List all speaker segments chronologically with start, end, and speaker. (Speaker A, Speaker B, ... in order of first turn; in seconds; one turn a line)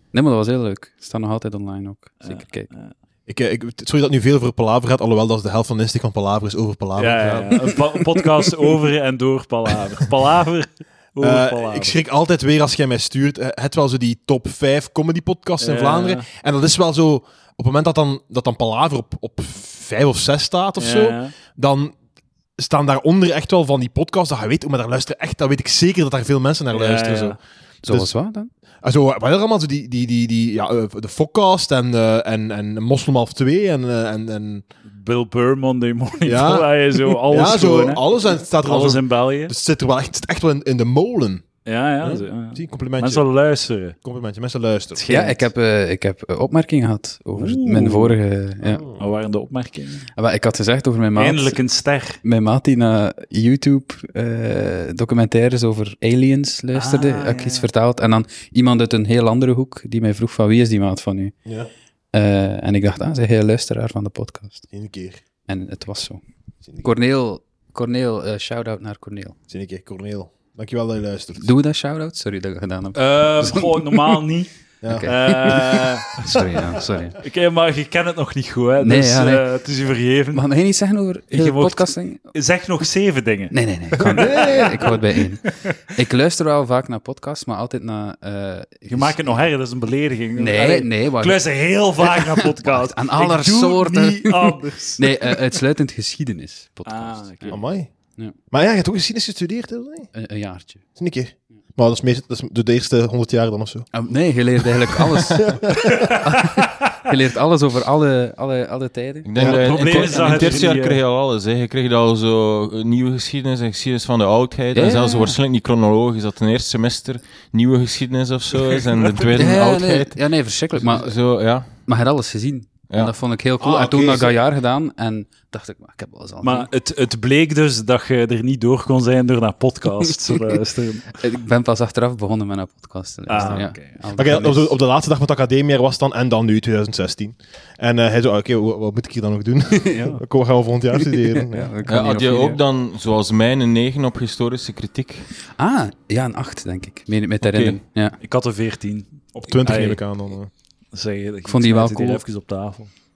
Speaker A: 0.1-2.7
Speaker B: 2.2-2.9
Speaker C: 3.3-7.8
Speaker B: 7.0-11.9
Speaker C: 11.2-21.9
Speaker B: 15.6-16.3
Speaker B: 20.8-21.3
Speaker C: 22.6-28.1
Speaker B: 26.7-27.4
Speaker A: 27.8-28.5
Speaker C: 28.8-34.6
Speaker B: 34.9-39.5
Speaker C: 36.2-41.5
Speaker B: 41.6-44.0
Speaker C: 42.0-43.2
Speaker C: 44.0-45.0
Speaker B: 45.0-45.5
Speaker A: 45.1-48.8
Speaker B: 47.4-48.1
Speaker C: 48.6-49.0
Speaker B: 49.0-50.0
Speaker A: 50.1-51.6
Speaker B: 51.1-52.2
Speaker A: 52.2-61.3
Speaker B: 56.7-57.7
Speaker A: 62.1-64.7
Speaker C: 64.7-65.2
Speaker A: 65.5-66.2
Speaker A: 66.8-69.3
Speaker C: 69.5-71.5
Speaker A: 71.4-73.7
Speaker B: 72.9-74.5
Speaker C: 74.8-75.5
Speaker A: 74.8-77.2
Speaker B: 75.0-76.3
Speaker B: 77.2-80.4
Speaker A: 78.8-79.4
Speaker A: 80.3-82.2
Speaker B: 81.3-84.9
Speaker A: 83.5-89.4
Speaker C: 83.9-85.0
Speaker B: 88.9-95.3
Speaker A: 90.4-91.4
Speaker A: 92.0-97.6
Speaker B: 96.8-97.6
Speaker C: 97.5-97.9
Speaker C: 98.5-100.1
Speaker A: 100.1-100.8
Speaker C: 101.0-103.9
Speaker A: 103.9-109.3
Speaker C: 105.1-106.1
Speaker B: 105.8-106.2
Speaker D: 109.2-121.7
Speaker B: 109.4-111.0
Speaker A: 109.8-110.5
Speaker A: 114.7-115.4
Speaker A: 119.3-121.1
Speaker A: 121.8-126.7
Speaker C: 123.6-124.4
Speaker B: 126.4-131.1
Speaker A: 131.2-134.7
Speaker B: 133.3-134.0
Speaker C: 134.1-141.7
Speaker B: 139.9-140.2
Speaker A: 141.4-142.6
Speaker D: 141.8-145.3
Speaker A: 145.6-148.2
Speaker D: 147.4-147.8
Speaker B: 148.2-150.0
Speaker C: 149.5-150.5
Speaker B: 150.9-152.9
Speaker A: 151.4-152.2